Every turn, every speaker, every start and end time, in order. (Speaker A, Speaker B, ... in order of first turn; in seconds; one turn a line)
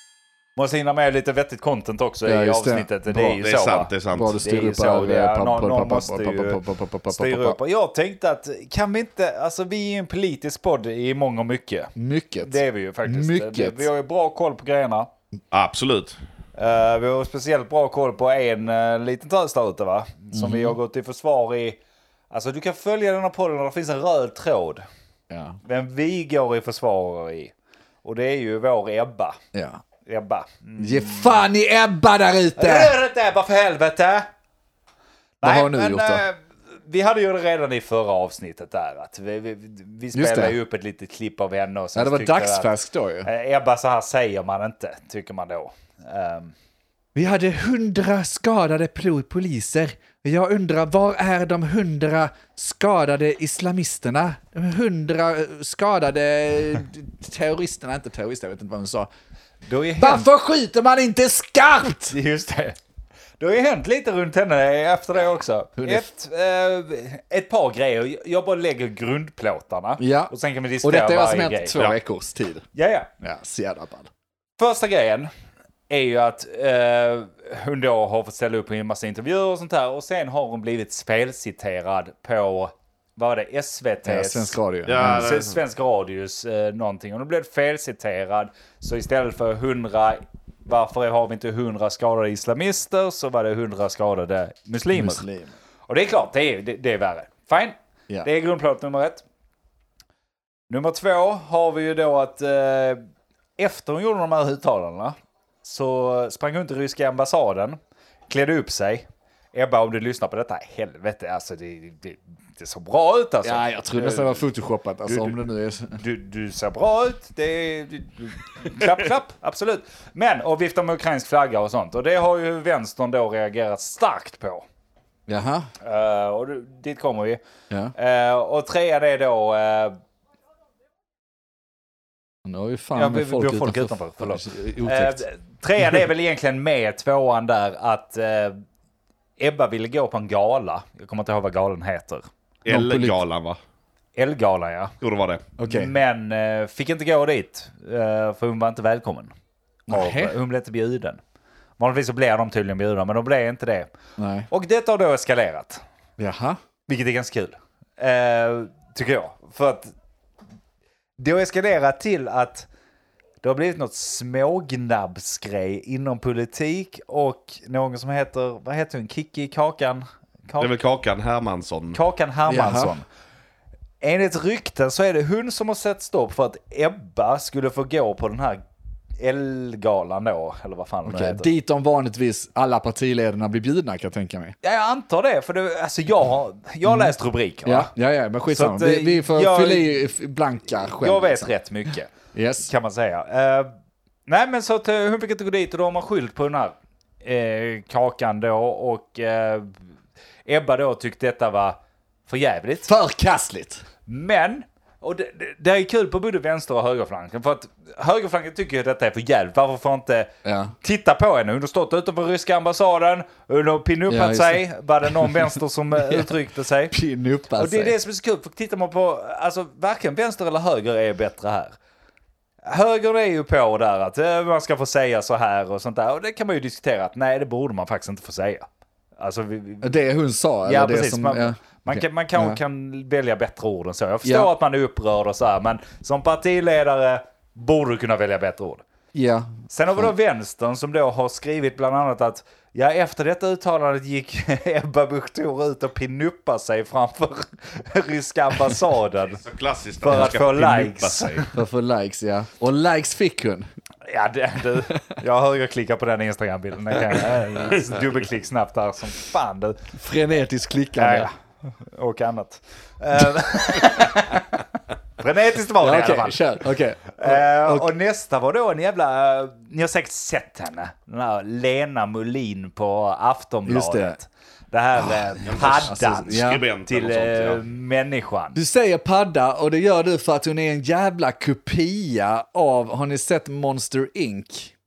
Speaker A: 0.6-15.1
Speaker B: 2.3-3.4
Speaker C: 3.4-4.4
Speaker B: 4.1-7.6
Speaker B: 12.0-13.9
Speaker C: 15.5-16.2
Speaker A: 16.6-21.8
Speaker B: 20.3-20.8
Speaker A: 22.3-24.8
Speaker B: 25.3-25.6
Speaker A: 25.6-27.5
Speaker A: 28.0-29.4
Speaker B: 29.5-29.8
Speaker A: 30.1-31.4
Speaker B: 30.8-33.0
Speaker A: 32.6-34.3
Speaker A: 35.4-42.7
Speaker B: 35.4-36.2
Speaker B: 40.1-40.6
Speaker B: 42.0-43.3
Speaker A: 43.2-46.5
Speaker B: 47.2-59.1
Speaker A: 59.7-60.3
Speaker B: 60.0-62.2
Speaker A: 62.1-62.8
Speaker A: 63.4-71.7
Speaker B: 65.8-66.0
Speaker B: 70.0-70.3
Speaker B: 70.8-72.7
Speaker A: 72.8-73.1
Speaker B: 73.2-74.1
Speaker A: 74.6-75.3
Speaker A: 75.9-95.2
Speaker B: 84.0-85.4
Speaker C: 84.9-85.6
Speaker B: 94.9-95.5
Speaker A: 95.9-99.2
Speaker A: 100.7-103.0
Speaker A: 103.6-107.8
Speaker A: 108.3-114.4
Speaker B: 113.4-116.0
Speaker A: 116.0-124.7
Speaker B: 125.3-125.7
Speaker A: 125.8-127.4
Speaker A: 128.0-130.0
Speaker B: 132.5-135.2
Speaker A: 133.0-138.6
Speaker A: 139.4-142.2
Speaker C: 142.7-143.6
Speaker B: 142.7-143.2
Speaker A: 144.2-144.9
Speaker C: 145.0-145.4
Speaker B: 145.6-145.9
Speaker A: 145.7-149.3
Speaker B: 149.9-150.3
Speaker A: 149.9-151.2
Speaker A: 151.8-153.9
Speaker B: 154.2-154.5
Speaker A: 154.5-155.8
Speaker B: 156.2-156.6
Speaker A: 156.9-159.9
Speaker A: 161.2-162.7
Speaker A: 163.4-170.8
Speaker C: 170.6-172.0
Speaker A: 171.9-173.0
Speaker B: 172.5-172.9
Speaker A: 174.0-178.6
Speaker A: 179.2-181.5
Speaker B: 181.1-184.6
Speaker A: 184.6-187.9
Speaker B: 186.8-187.1
Speaker B: 187.7-191.5
Speaker A: 188.5-190.0
Speaker A: 191.0-192.1
Speaker B: 192.3-192.7
Speaker A: 192.7-193.7
Speaker A: 194.3-199.8
Speaker A: 200.5-202.9
Speaker B: 202.9-203.8
Speaker A: 204.1-210.3
Speaker B: 210.4-210.7
Speaker A: 210.8-216.9
Speaker B: 214.1-215.5
Speaker B: 216.9-217.9
Speaker A: 217.6-221.7
Speaker A: 222.6-228.7
Speaker A: 229.2-230.0
Speaker B: 229.8-232.6
Speaker A: 230.7-238.8
Speaker B: 234.2-234.5
Speaker B: 239.1-240.1
Speaker A: 239.7-249.4
Speaker C: 249.4-251.5
Speaker A: 250.0-251.5
Speaker B: 251.5-253.7
Speaker A: 254.1-259.8
Speaker B: 260.0-261.3
Speaker A: 261.0-264.6
Speaker A: 265.2-266.6
Speaker B: 265.8-267.9
Speaker A: 267.2-278.6
Speaker B: 273.7-274.2
Speaker B: 275.4-276.6
Speaker C: 275.4-277.6
Speaker B: 278.6-284.7